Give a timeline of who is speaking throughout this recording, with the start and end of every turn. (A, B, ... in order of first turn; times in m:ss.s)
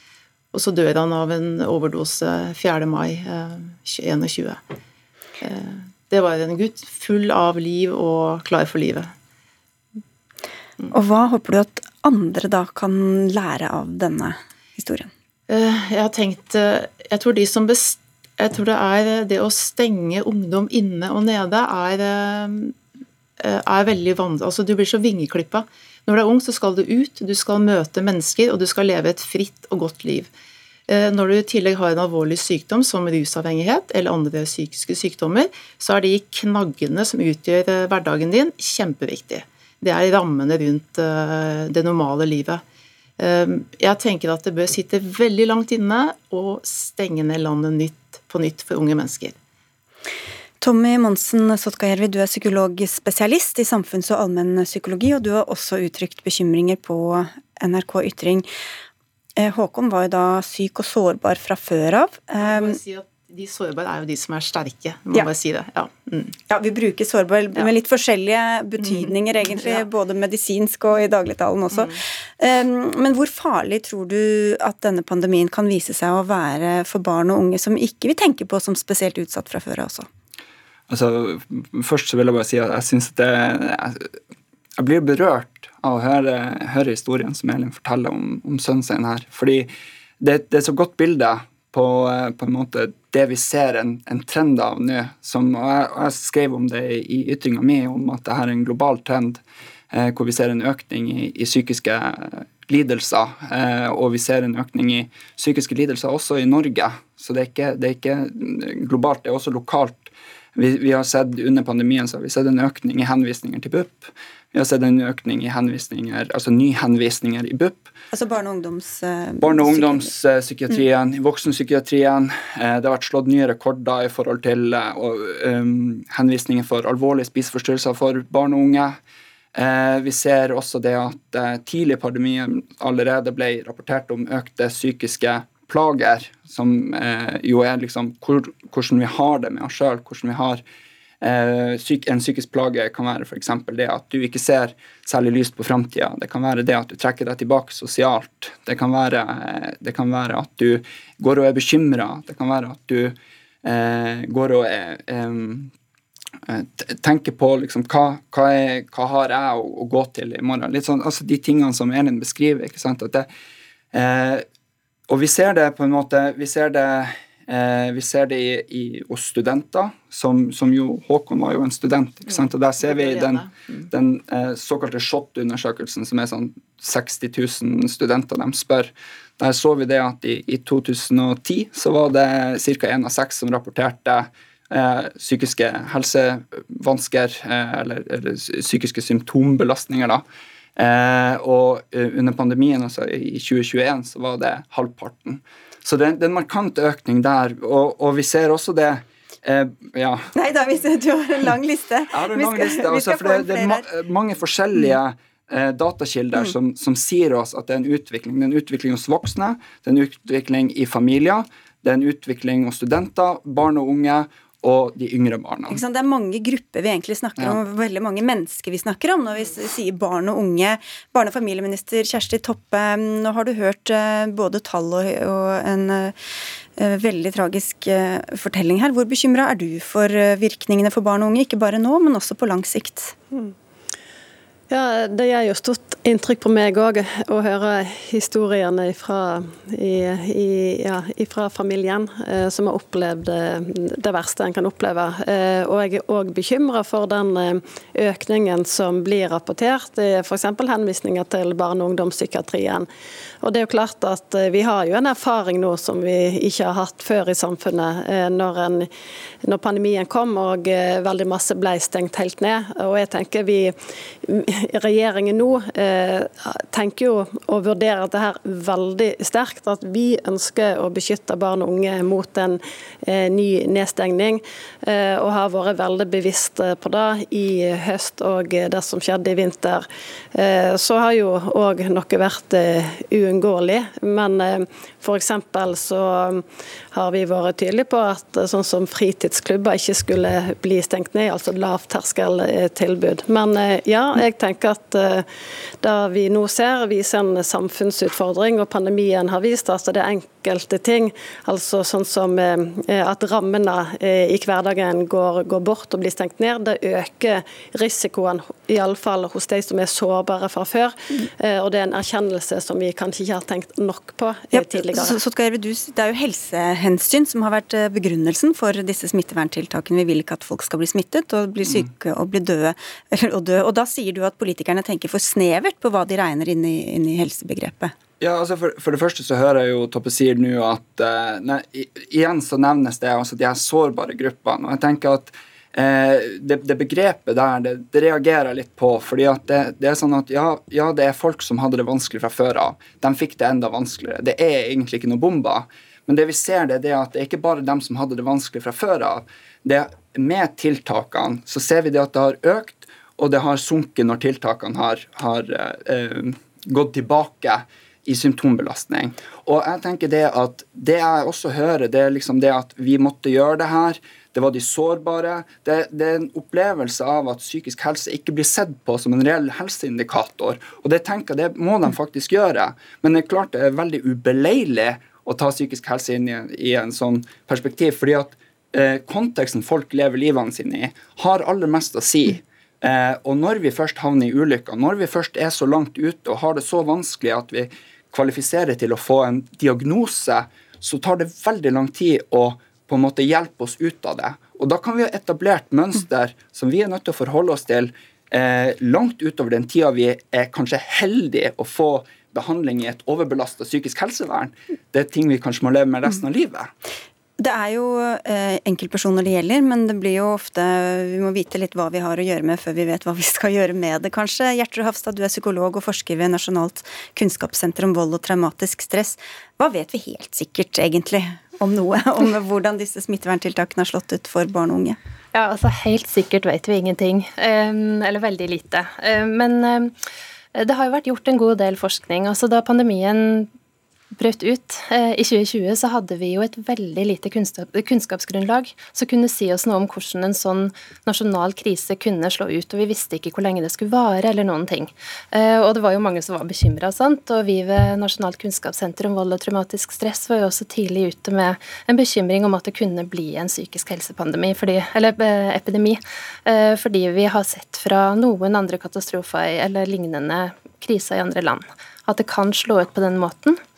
0:00.5-0:04.6 A
0:05.4-0:09.1 A
0:10.9-0:15.1 B
0:15.5-0:22.8 A
0:23.4-0:30.3 A
0:30.9-0:42.6 A
0:43.2-0:49.4 A
0:50.6-0:58.5 B
0:59.4-1:02.8 B
1:02.4-1:06.4 A
1:06.5-1:20.1 B
1:08.8-1:09.8 A
1:20.9-1:24.1 C
1:24.8-1:57.9 C
1:58.1-2:00.1 B
1:59.4-2:09.0 C
2:09.6-2:20.6 C
2:21.2-2:35.7 C
2:36.5-2:43.3 C
2:43.9-2:44.5 C
2:45.1-3:10.2 C
2:52.2-2:53.9 A
3:10.8-3:20.3 C
3:20.3-3:23.9 B
3:22.1-3:35.8 C
3:35.7-3:46.2 B
3:46.8-3:53.2 B
3:54.7-4:12.9 D
4:13.4-4:18.9 D
4:19.4-4:55.3 D
4:55.8-5:15.2 D
5:14.5-5:27.9 B
5:28.2-6:46.7 C
6:47.4-7:05.0 B
7:05.3-7:10.0 E
7:10.6-7:13.5 E
7:14.1-7:43.6 E